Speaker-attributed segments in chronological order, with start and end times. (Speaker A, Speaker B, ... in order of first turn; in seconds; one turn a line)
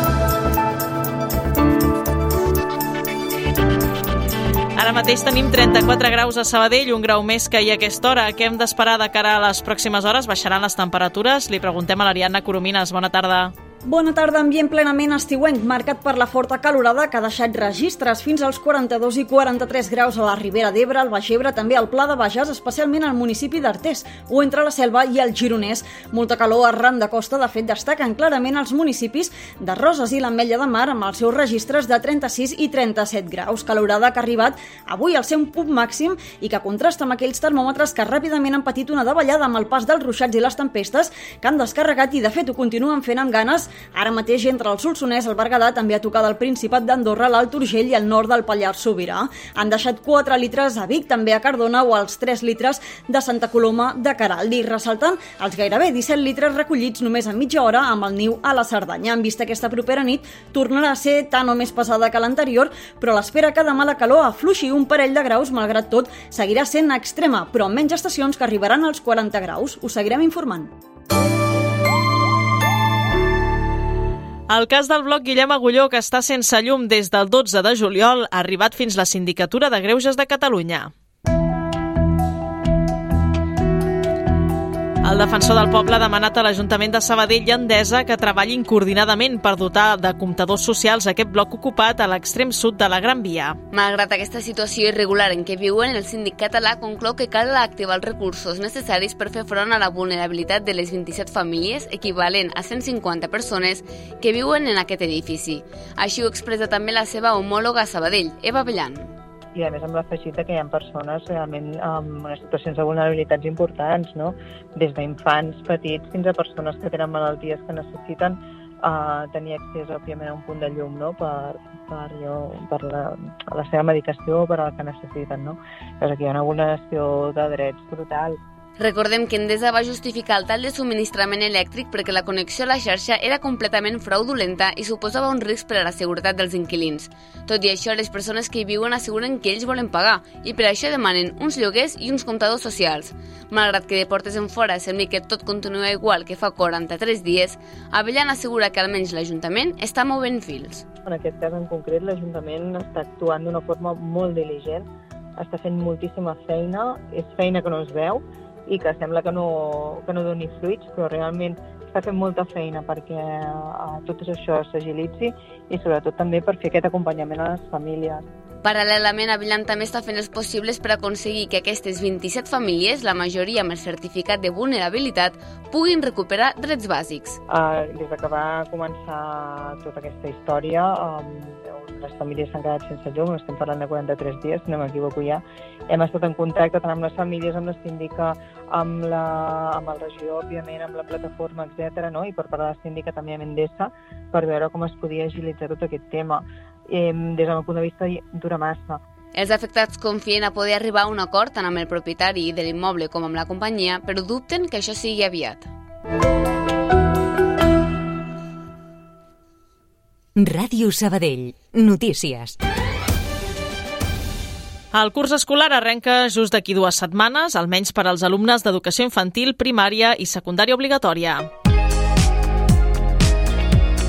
Speaker A: 4.8-13.5
Speaker B: 13.8-70.7
Speaker A: 74.5-80.9
Speaker A: 85.0-93.6
Speaker C: 93.7-109.1
Speaker D: 109.5-128.4
Speaker C: 128.8-150.8
Speaker D: 151.1-154.9
Speaker D: 155.4-168.2
Speaker C: 168.6-177.4
Speaker D: 177.5-199.0
Speaker C: 199.3-205.7
Speaker E: 210.4-212.6
Speaker A: 214.9-221.5